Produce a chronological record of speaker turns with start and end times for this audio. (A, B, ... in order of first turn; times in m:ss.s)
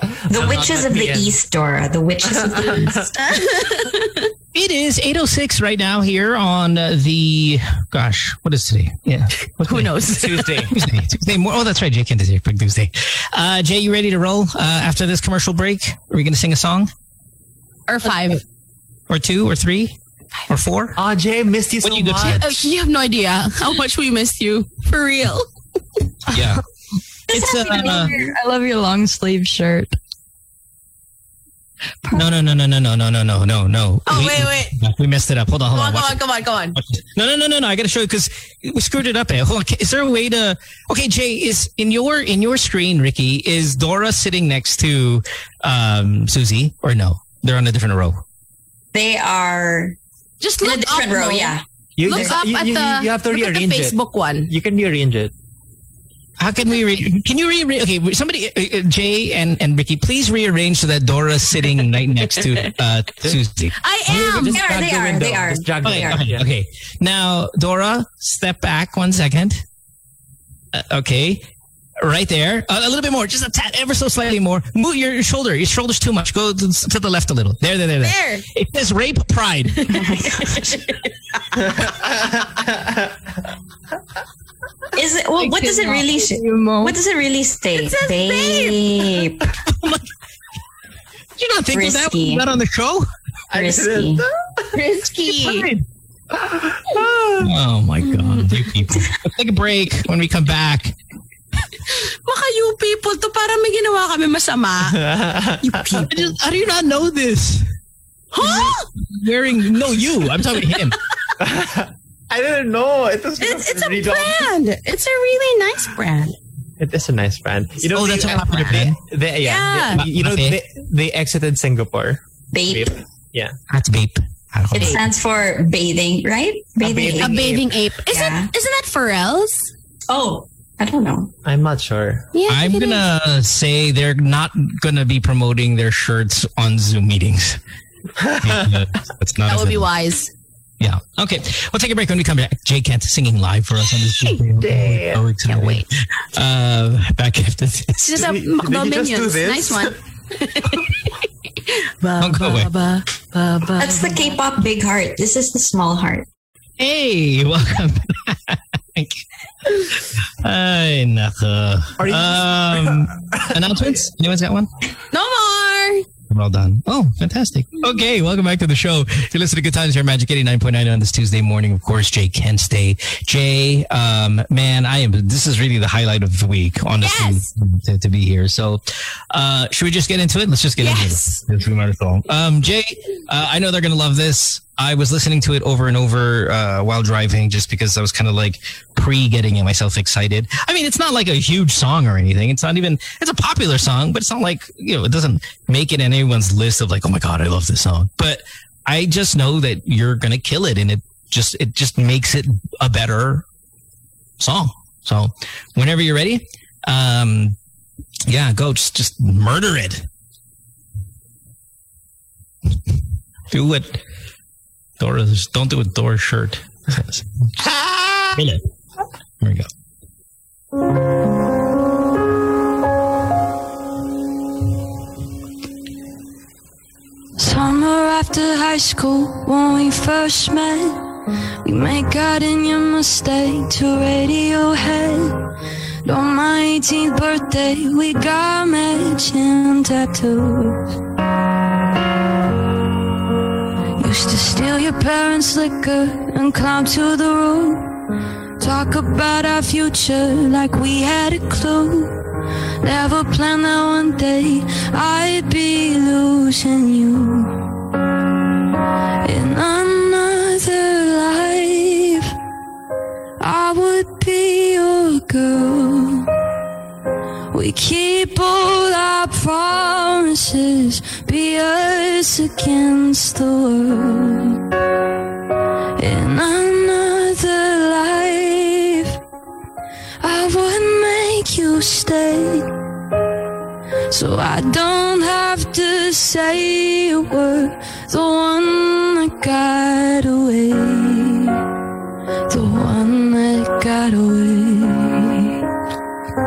0:00.3-0:01.3 A
0:00.3-0:03.2 B
0:02.2-0:03.1 A
0:03.2-0:04.3 C
0:04.5-0:10.0 D
0:09.6-0:10.6 C
0:10.1-0:10.8 A
0:10.7-0:16.9 D
0:17.9-0:18.4 C
0:19.1-0:20.0 D
0:20.5-0:21.0 D
0:21.0-0:22.5 A
0:21.8-0:22.7 D
0:22.2-0:25.5 C
0:26.3-0:26.6 D
0:27.3-0:28.4 B
0:27.3-0:28.1 D
0:27.7-0:29.9 E
0:32.1-0:36.2 D
0:34.0-0:34.7 C
0:35.7-0:36.8 C
0:36.7-0:48.2 D
0:48.9-0:50.0 B
0:50.4-0:54.5 C
0:50.6-0:52.4 B
0:52.0-0:55.3 A
0:56.4-1:03.8 D
1:03.8-1:04.6 C
1:04.0-1:06.4 A
1:04.2-1:06.3 B
1:05.8-1:09.6 D
1:10.7-1:11.4 D
1:12.0-1:20.1 D
1:18.0-1:18.4 C
1:19.9-1:20.6 B
1:19.9-1:20.8 C
1:21.8-1:23.1 A
1:24.9-1:29.5 B
1:25.4-1:27.0 E
1:27.8-1:29.3 C
1:29.6-1:30.0 D
1:31.4-1:33.1 D
1:31.7-1:32.5 B
1:33.5-1:34.8 A
1:33.5-1:34.2 B
1:34.7-1:35.7 C
1:35.2-1:35.8 D
1:36.4-1:37.5 A
1:37.4-1:40.9 D
1:41.9-1:45.1 C
1:44.8-1:46.1 A
1:45.6-1:46.0 C
1:46.0-1:47.7 D
1:48.3-1:48.9 C
1:48.4-1:51.0 D
1:51.4-1:54.5 A
1:53.4-1:56.4 C
1:56.8-2:03.5 A
1:57.9-1:59.0 D
1:58.2-1:58.8 C
1:59.4-2:00.0 C
1:59.9-2:00.6 D
2:02.5-2:03.0 B
2:03.7-2:05.0 D
2:04.7-2:07.6 B
2:04.8-2:05.0 C
2:06.8-2:07.7 A
2:07.2-2:09.7 C
2:08.1-2:08.5 B
2:10.1-2:11.3 B
2:11.4-2:12.3 A
2:12.3-2:13.0 C
2:12.5-2:17.6 D
2:18.2-2:18.8 A
2:18.4-2:19.9 D
2:19.4-2:20.3 C
2:20.8-2:28.3 D
2:24.6-2:25.2 A
2:25.4-2:25.8 C
2:28.0-2:34.4 C
2:28.2-2:30.0 A
2:32.2-2:32.7 D
2:33.8-2:36.3 B
2:36.8-2:39.2 D
2:39.7-2:44.7 D
2:42.0-2:44.0 A
2:45.1-2:46.0 C
2:46.3-3:23.4 D
2:57.0-2:57.4 C
3:00.8-3:01.4 C
3:24.4-3:27.6 D
3:28.3-3:30.0 D
3:33.5-3:34.0 D
3:35.0-3:37.5 D
3:37.6-3:38.4 A
3:38.3-3:38.6 D
3:39.4-3:39.7 D
3:47.4-3:51.0 E
3:51.6-3:55.4 E
3:56.0-4:01.0 E
4:04.0-4:07.9 E
4:08.6-4:12.2 E
4:12.8-4:17.7 E
4:19.2-4:22.3 E
4:23.4-4:26.3 E
4:27.5-4:34.6 E
4:36.0-4:39.2 E
4:40.2-4:42.7 E
4:44.1-4:51.6 E
4:52.5-4:55.6 E